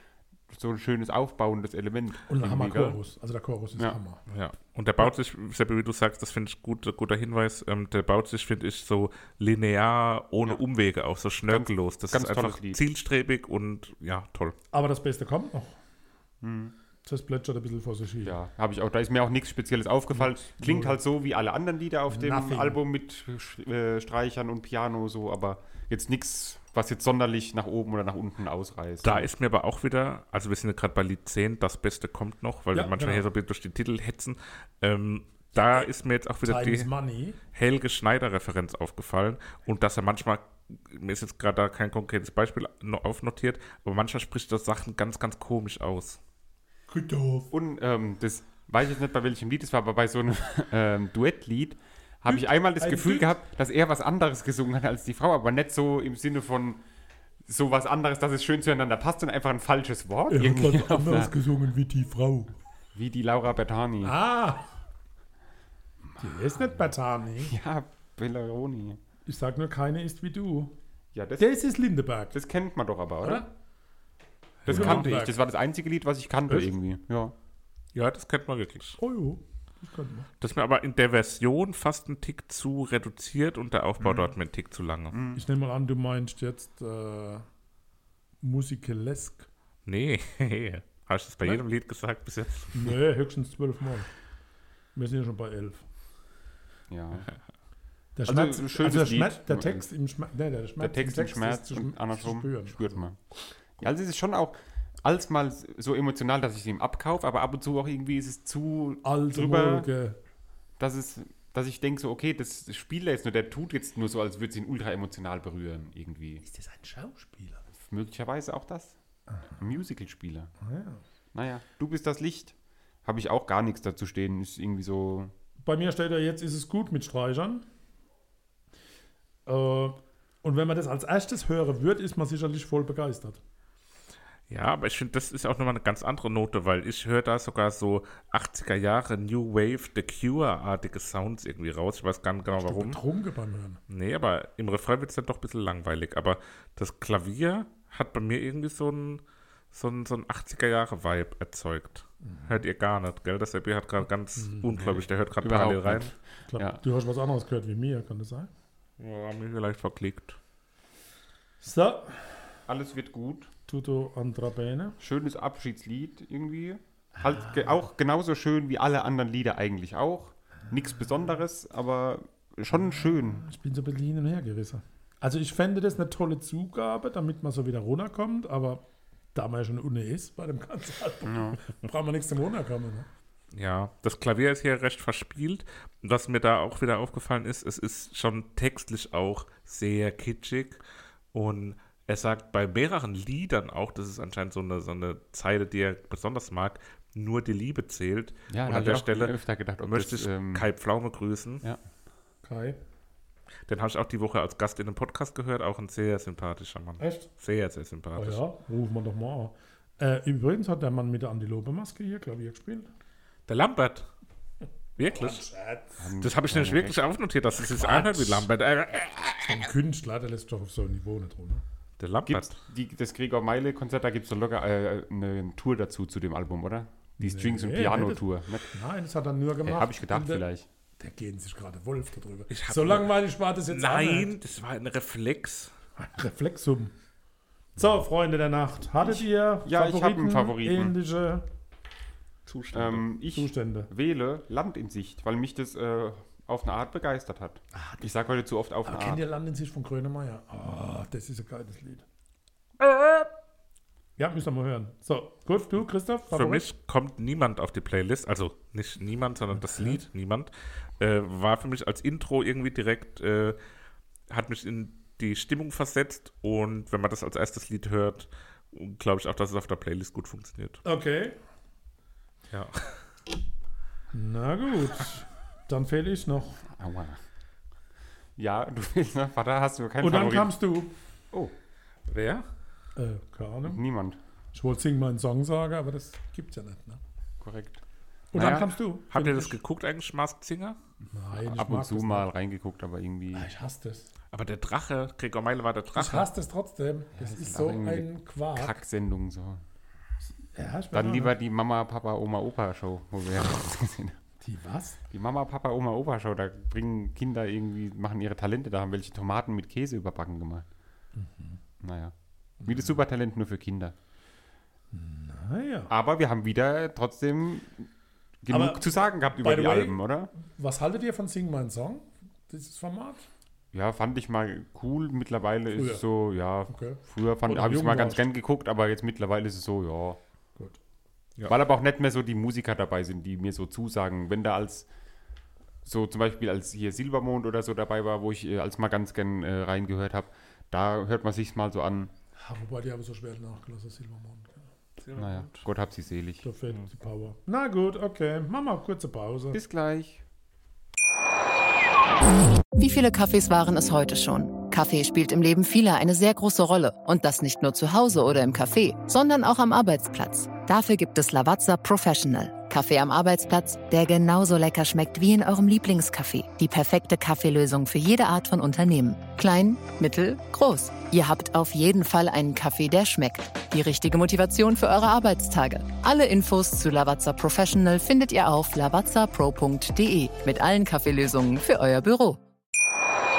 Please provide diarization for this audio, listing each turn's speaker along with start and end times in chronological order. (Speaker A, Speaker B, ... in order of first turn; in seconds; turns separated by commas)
Speaker A: 0.5-3.0, Speaker B: 2.3-4.2, Speaker C: 4.3-14.6, Speaker A: 11.5-12.8, Speaker B: 14.7-15.7, Speaker A: 16.4-16.7, Speaker B: 17.1-18.4, Speaker A: 18.2-29.3, Speaker B: 20.1-21.0, Speaker B: 22.1-22.8, Speaker C: 29.0-36.9, Speaker B: 32.7-33.3, Speaker B: 36.4-37.4, Speaker C: 37.5-46.2, Speaker B: 46.9-47.5, Speaker A: 47.5-56.8, Speaker B: 52.3-53.3, Speaker A: 57.5-61.3, Speaker B: 60.3-62.5, Speaker A: 63.0-64.1, Speaker B: 64.0-64.7, Speaker A: 66.2-66.7, Speaker B: 66.2-67.5, Speaker A: 67.4-69.0, Speaker B: 69.3-70.8, Speaker A: 71.1-71.6, Speaker B: 71.4-72.4, Speaker A: 72.3-73.5, Speaker B: 73.2-73.5, Speaker C: 74.7-75.1, Speaker B: 74.7-75.4, Speaker A: 74.7-77.3, Speaker C: 77.9-79.0, Speaker B: 79.0-80.3, Speaker C: 80.4-85.2, Speaker A: 85.1-85.4, Speaker B: 85.3-87.5, Speaker B: 88.4-89.5, Speaker C: 89.9-92.9, Speaker B: 92.7-94.1, Speaker B: 95.0-95.8, Speaker A: 96.9-97.3, Speaker B: 98.2-103.0, Speaker A: 98.3-99.8, Speaker A: 100.8-103.2, Speaker A: 103.8-109.9, Speaker B: 109.0-110.2, Speaker A: 110.8-116.4, Speaker B: 116.4-117.6, Speaker A: 117.8-119.0, Speaker A: 119.6-120.5, Speaker B: 120.6-121.0, Speaker A: 121.3-125.3, Speaker B: 125.6-127.7, Speaker B: 129.5-133.4, Speaker C: 134.5-143.0, Speaker B: 142.6-143.8, Speaker C: 143.9-156.1, Speaker B: 152.2-152.6, Speaker B: 154.4-154.7, Speaker A: 154.8-156.8, Speaker B: 156.5-158.5, Speaker C: 159.0-160.4, Speaker B: 161.6-162.5, Speaker A: 162.7-163.5, Speaker B: 163.7-165.0, Speaker A: 165.0-173.4, Speaker B: 172.7-183.1, Speaker A: 181.2-181.6, Speaker C: 183.5-190.8, Speaker C: 191.3-199.3, Speaker A: 198.5-200.7, Speaker C: 199.8-201.6, Speaker B: 202.4-202.8, Speaker C: 203.7-208.4, Speaker B: 207.0-207.3, Speaker B: 208.2-212.9, Speaker C: 213.5-214.1, Speaker C: 215.0-215.4, Speaker B: 215.1-215.9, Speaker A: 216.0-216.9, Speaker C: 216.2-219.6, Speaker B: 217.8-218.5, Speaker B: 219.4-221.6, Speaker C: 222.0-222.6, Speaker A: 222.3-228.7, Speaker B: 227.2-230.4, Speaker A: 229.6-230.7, Speaker B: 231.0-234.3, Speaker C: 232.5-233.1, Speaker C: 233.7-235.7, Speaker B: 236.0-236.9, Speaker B: 237.8-241.5, Speaker A: 239.0-240.9, Speaker C: 242.5-243.0, Speaker A: 242.7-249.2, Speaker B: 243.3-243.9, Speaker B: 247.7-248.0, Speaker B: 248.9-252.1, Speaker B: 254.2-256.7, Speaker C: 256.3-263.6, Speaker B: 259.6-260.0, Speaker C: 264.3-270.8, Speaker B: 270.8-271.4, Speaker C: 272.5-272.9, Speaker B: 274.1-276.6, Speaker A: 276.7-277.2, Speaker A: 278.4-280.6, Speaker B: 280.0-280.9, Speaker C: 282.1-282.5, Speaker B: 283.0-283.8, Speaker A: 283.7-284.2, Speaker B: 284.5-287.0, Speaker A: 287.4-287.8, Speaker B: 288.3-289.6, Speaker A: 288.3-288.7, Speaker C: 289.1-290.8, Speaker B: 291.1-292.3, Speaker A: 291.5-293.5, Speaker B: 293.3-294.1, Speaker C: 294.3-296.3, Speaker B: 295.9-298.7, Speaker A: 297.2-299.6, Speaker B: 300.5-301.3, Speaker A: 300.9-304.2, Speaker B: 304.4-305.0, Speaker A: 305.1-310.7, Speaker B: 311.2-311.6, Speaker A: 311.8-313.9, Speaker B: 312.6-312.9, Speaker B: 314.9-315.9, Speaker A: 315.9-317.9, Speaker A: 318.4-320.3, Speaker B: 318.5-323.2, Speaker A: 323.7-330.2, Speaker B: 325.7-326.0, Speaker B: 326.7-328.3, Speaker A: 331.5-334.9, Speaker A: 335.9-342.1, Speaker B: 342.4-344.7, Speaker C: 345.0-345.6, Speaker A: 345.2-346.4, Speaker B: 346.4-349.6, Speaker A: 349.5-350.2, Speaker D: 352.8-382.4